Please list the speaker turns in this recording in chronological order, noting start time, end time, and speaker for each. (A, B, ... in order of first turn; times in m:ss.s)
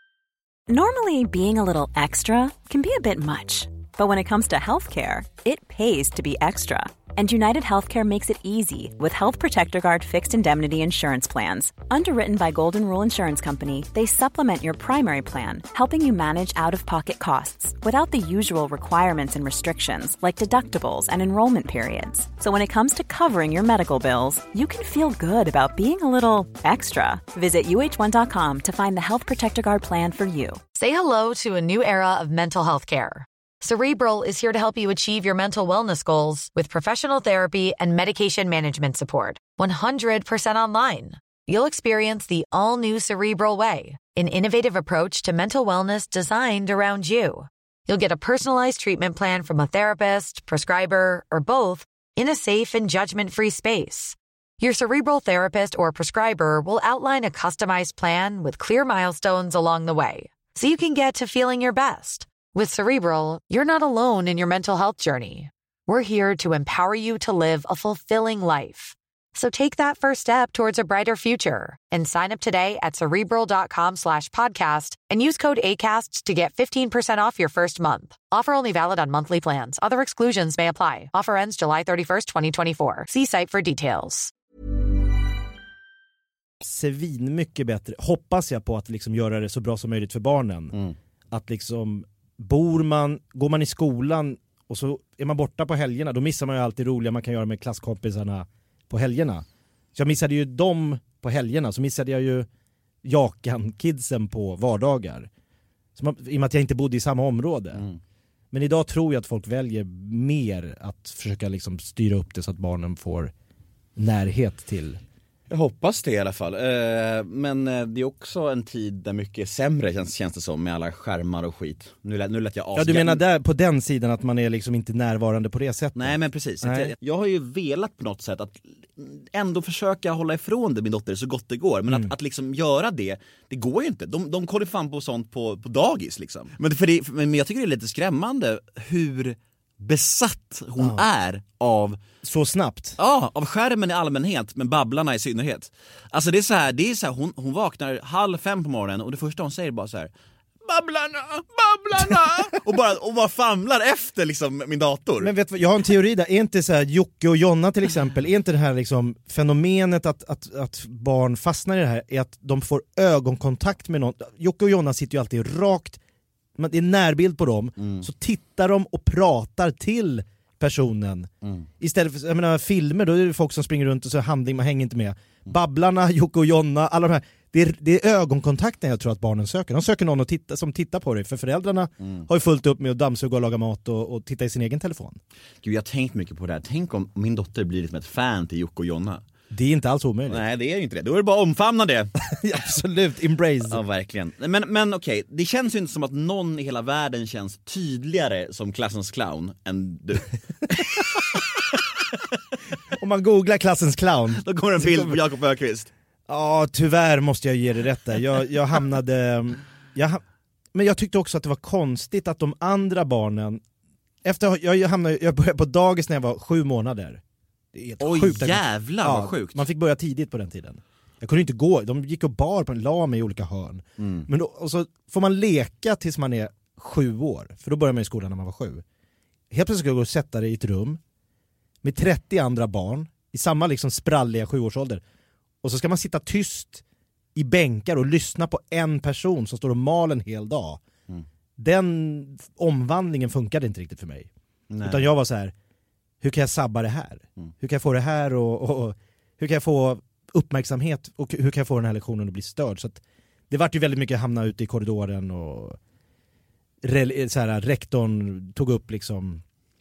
0:00.7-0:30.6 A
0:30.7-1:24.3 B
1:26.6-1:30.8 C
1:31.3-1:42.5 C
1:43.0-1:45.3 C
1:46.0-1:47.8 C
1:47.7-1:48.0 D
1:48.5-1:53.3 C
1:54.0-1:55.0 C
1:55.5-2:03.2 D
2:02.7-2:06.9 C
2:06.0-2:22.0 D
2:22.2-2:23.0 C
2:23.0-2:30.1 D
2:30.6-2:35.3 D
2:35.2-2:46.0 C
2:46.6-3:05.2 C
2:47.8-2:48.1 D
2:51.4-2:51.7 D
3:02.0-3:02.3 D
3:05.6-3:09.2 D
3:09.5-3:10.4 C
3:10.3-3:12.1 D
3:12.2-3:13.8 C
3:13.7-3:21.2 D
3:22.9-3:25.2 C
3:24.4-3:25.9 D
3:26.3-3:30.2 C
3:30.7-3:33.6 C
3:34.2-3:37.2 C
3:37.7-3:48.8 C
3:38.0-3:39.6 D
3:44.0-3:44.3 D
3:49.5-3:51.0 C
3:51.8-3:55.0 C
3:55.6-3:56.8 C
3:57.3-4:00.8 C
4:01.6-4:04.3 C
4:04.7-4:05.1 D
4:04.8-4:05.5 C
4:06.2-4:15.8 C
4:16.8-4:19.4 C